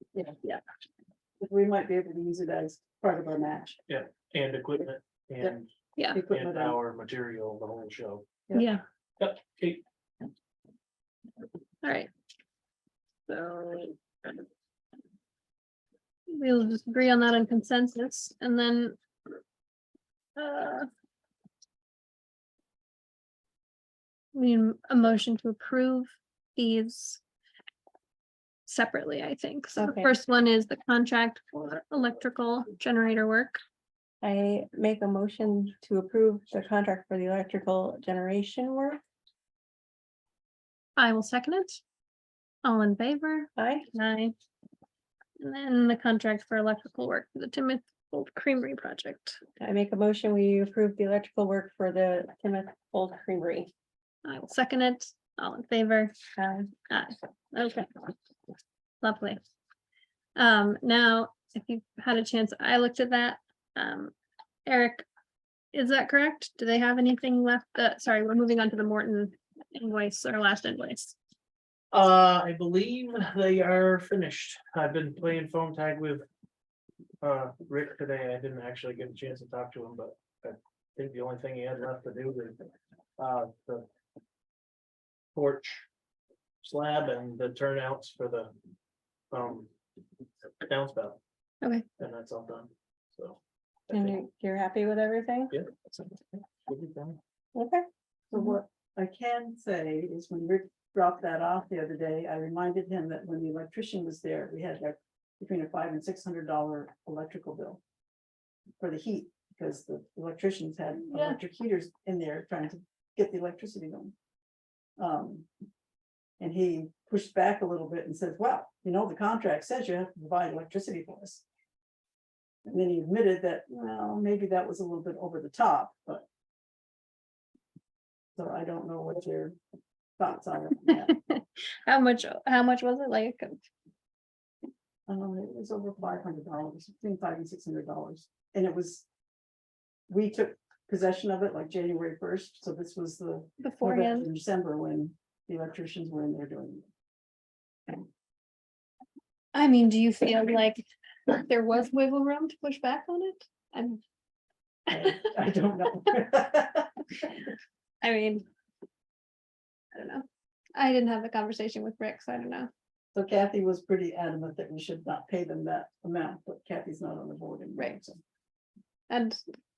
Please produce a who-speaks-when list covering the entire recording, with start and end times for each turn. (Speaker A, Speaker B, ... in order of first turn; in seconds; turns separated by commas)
Speaker A: 1.4-3.8, Speaker B: 3.9-8.3, Speaker A: 6.1-6.8, Speaker C: 8.5-8.8, Speaker B: 9.2-9.8, Speaker C: 11.8-12.1, Speaker C: 13.3-14.0, Speaker C: 16.3-19.0, Speaker C: 20.4-20.9, Speaker C: 24.3-27.2, Speaker C: 28.7-33.6, Speaker D: 29.8-30.1, Speaker D: 34.2-39.0, Speaker C: 41.0-41.8, Speaker C: 42.6-44.4, Speaker D: 43.6-43.9, Speaker C: 45.4-49.4, Speaker D: 49.6-53.7, Speaker C: 54.2-56.2, Speaker D: 56.4-56.7, Speaker C: 56.9-57.9, Speaker C: 59.0-59.4, Speaker C: 60.4-64.1, Speaker C: 64.7-65.0, Speaker C: 65.7-71.2, Speaker B: 71.9-76.3, Speaker B: 77.2-82.7, Speaker B: 83.2-83.9, Speaker B: 85.3-85.8, Speaker B: 86.6-88.5, Speaker B: 89.3-89.7, Speaker B: 90.6-91.2, Speaker B: 92.0-94.2, Speaker D: 93.9-95.5, Speaker B: 95.5-97.2, Speaker D: 97.5-97.9, Speaker A: 98.3-107.8, Speaker A: 108.8-114.1, Speaker C: 111.1-111.4, Speaker A: 115.0-115.5, Speaker A: 116.4-121.4, Speaker A: 122.7-126.3, Speaker A: 128.4-129.6, Speaker A: 130.2-131.1, Speaker C: 130.9-133.6, Speaker A: 135.1-139.1, Speaker A: 140.1-146.9, Speaker C: 143.6-144.3, Speaker C: 149.5-154.0, Speaker A: 154.9-157.3, Speaker C: 158.0-158.5, Speaker C: 159.9-162.7, Speaker A: 163.1-168.2, Speaker C: 169.1-169.4